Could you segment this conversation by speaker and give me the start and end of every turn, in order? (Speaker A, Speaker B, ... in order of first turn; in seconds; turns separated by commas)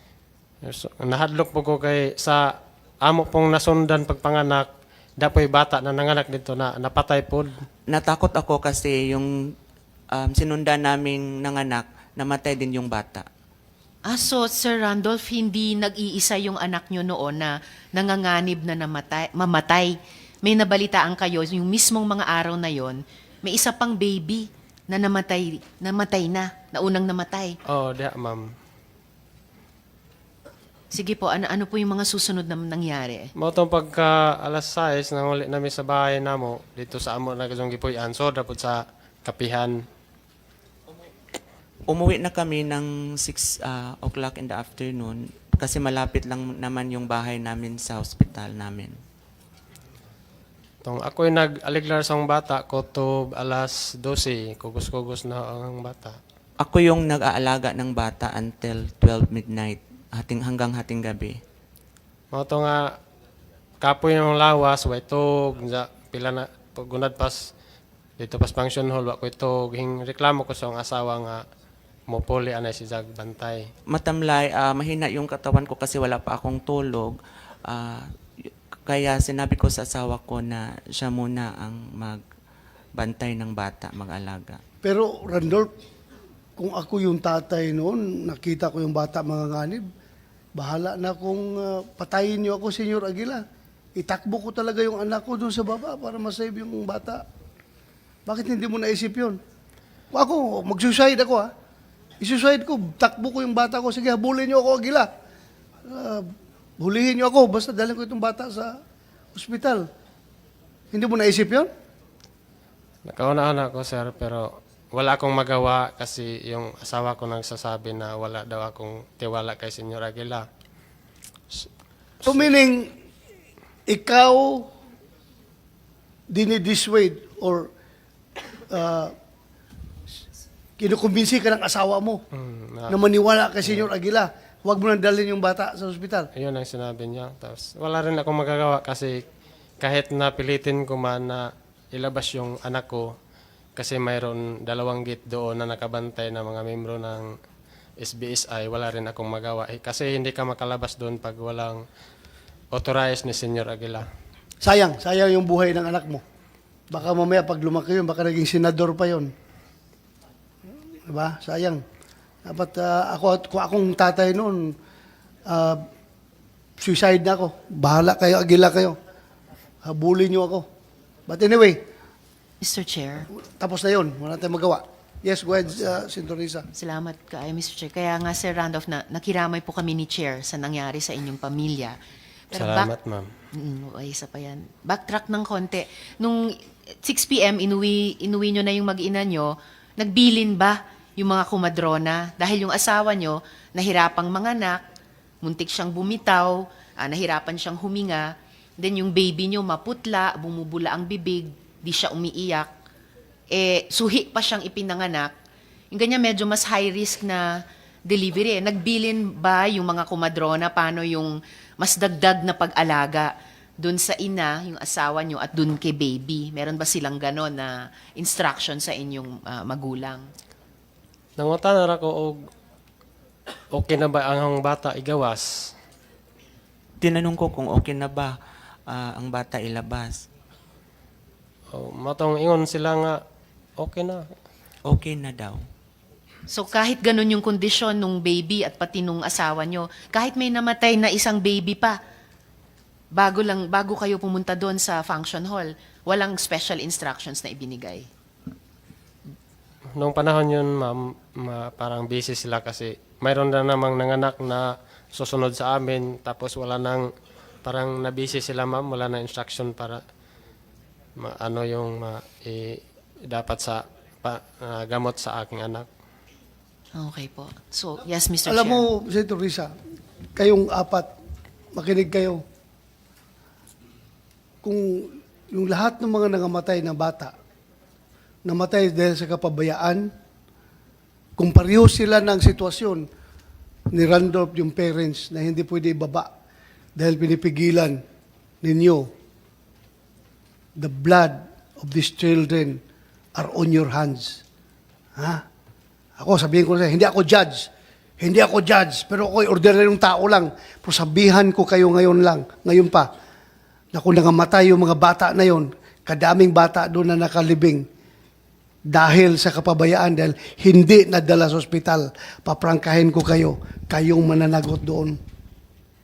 Speaker A: 0.6-7.6, Speaker B: 7.9-9.5, Speaker B: 10.1-13.2, Speaker C: 14.1-27.6, Speaker A: 27.7-28.4, Speaker C: 30.9-33.3, Speaker A: 33.4-39.8, Speaker B: 41.9-49.0, Speaker A: 50.8-56.2, Speaker B: 56.6-61.4, Speaker A: 62.3-62.9, Speaker A: 63.8-67.5, Speaker A: 68.2-71.4, Speaker A: 72.1-73.7, Speaker B: 73.9-82.2, Speaker B: 83.0-84.6, Speaker D: 84.8-85.7, Speaker D: 86.6-89.8, Speaker D: 90.6-93.4, Speaker D: 94.0-97.2, Speaker D: 98.3-99.4, Speaker D: 100.1-101.5, Speaker D: 102.2-105.1, Speaker D: 105.9-106.3, Speaker D: 106.8-108.8, Speaker D: 109.3-109.8, Speaker D: 110.9-111.7, Speaker A: 113.1-120.5, Speaker A: 122.2-122.5, Speaker D: 122.2-122.9, Speaker D: 123.9-124.7, Speaker D: 126.3-127.7, Speaker D: 128.7-129.1, Speaker D: 130.8-132.2, Speaker A: 132.3-132.9, Speaker D: 132.9-136.3, Speaker A: 133.6-133.9, Speaker A: 136.3-139.2, Speaker A: 139.8-143.1, Speaker A: 143.8-147.3, Speaker A: 148.0-151.8, Speaker A: 152.7-154.0, Speaker D: 154.6-156.2, Speaker D: 156.9-159.3, Speaker D: 161.1-161.8, Speaker D: 162.4-164.7, Speaker D: 165.5-165.8, Speaker D: 166.8-169.0, Speaker D: 169.8-170.7, Speaker D: 171.3-171.8, Speaker C: 172.6-173.3, Speaker D: 173.4-176.7, Speaker C: 176.7-182.0, Speaker C: 182.5-182.9, Speaker A: 182.5-183.3, Speaker C: 183.6-194.8, Speaker C: 195.4-202.7, Speaker C: 203.5-205.3, Speaker C: 205.9-220.2, Speaker A: 221.4-222.5, Speaker A: 223.7-225.7, Speaker B: 227.0-228.3, Speaker B: 228.9-230.2, Speaker A: 231.7-233.2, Speaker A: 233.8-234.3, Speaker B: 234.8-235.6, Speaker C: 236.5-242.0, Speaker C: 243.1-248.1, Speaker A: 250.0-257.1, Speaker A: 257.6-260.0, Speaker A: 261.2-265.9, Speaker C: 266.9-268.8, Speaker D: 268.4-269.7, Speaker D: 270.4-271.1, Speaker D: 271.7-272.4, Speaker D: 274.6-277.3, Speaker D: 278.4-280.1, Speaker D: 281.4-283.1, Speaker D: 283.9-286.3, Speaker D: 286.9-288.0, Speaker D: 288.6-289.1, Speaker D: 290.8-292.8, Speaker D: 293.4-294.4, Speaker D: 295.2-295.4, Speaker D: 296.2-297.7, Speaker D: 298.2-303.1, Speaker D: 303.9-307.8, Speaker D: 308.9-315.1